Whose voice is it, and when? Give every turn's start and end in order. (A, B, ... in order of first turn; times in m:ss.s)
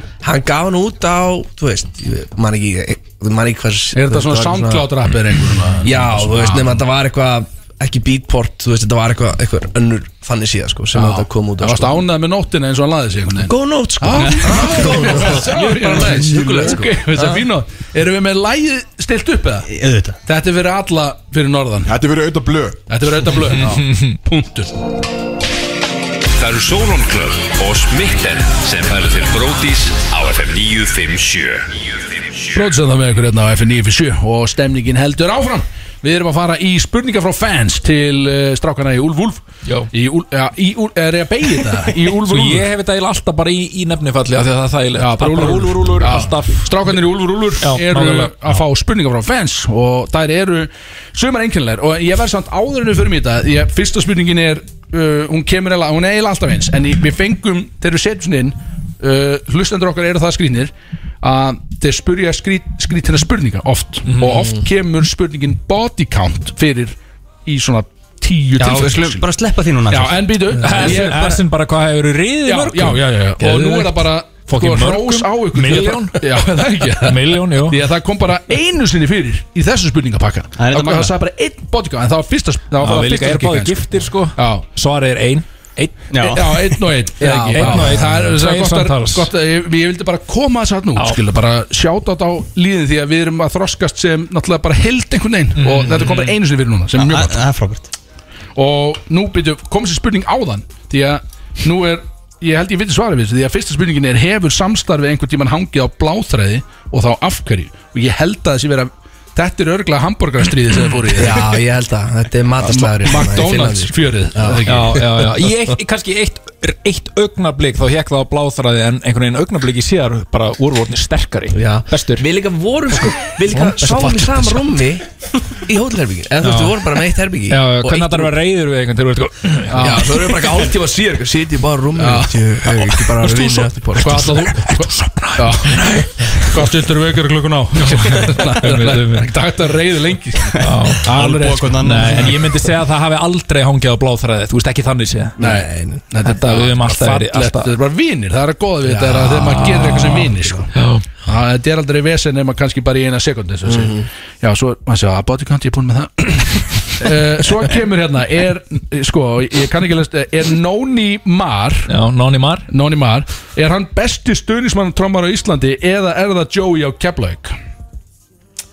0:00.2-0:04.9 A
0:03.9-0:06.8 B
0:05.8-0:12.0 A
0:10.9-0:19.7 B
0:13.4-0:17.4 A
0:15.1-0:16.8 C
0:19.7-0:20.2 D
0:20.2-0:21.9 B
0:21.8-0:22.8 C
0:22.9-0:24.7 B
0:23.4-0:24.2 E
0:26.4-0:31.9 F
0:32.5-0:42.7 B
0:39.6-0:39.9 E
0:42.2-0:47.0 E
0:45.0-1:00.7 B
0:47.6-0:48.5 E
1:01.2-1:06.9 B
1:04.0-1:04.6 E
1:07.4-1:09.3 B
1:08.6-1:10.4 D
1:09.9-1:11.4 B
1:10.5-1:17.8 E
1:12.4-1:23.8 B
1:20.6-1:21.1 D
1:22.8-1:26.6 E
1:24.4-1:24.7 B
1:26.1-1:26.5 D
1:26.2-1:37.4 B
1:27.2-1:28.3 A
1:27.4-1:29.3 E
1:35.6-1:36.4 E
1:37.0-1:37.9 D
1:38.6-1:51.6 B
1:51.2-1:54.8 A
1:52.6-1:55.3 B
1:54.7-2:02.3 E
2:01.5-2:05.0 A
2:03.5-2:04.6 E
2:05.6-2:08.3 A
2:06.4-2:06.8 E
2:07.5-2:10.0 E
2:09.7-2:10.1 B
2:09.8-2:14.4 A
2:12.0-2:12.4 B
2:13.2-2:16.6 E
2:14.0-2:22.3 B
2:17.8-2:19.3 E
2:20.6-2:21.1 E
2:21.1-2:22.4 D
2:21.7-2:25.4 E
2:25.4-2:26.1 A
2:25.4-2:30.7 B
2:26.2-2:27.7 E
2:28.9-2:29.8 A
2:29.5-2:30.3 E
2:31.2-2:41.9 B
2:33.7-2:34.0 A
2:41.9-2:42.7 E
2:42.7-2:47.6 B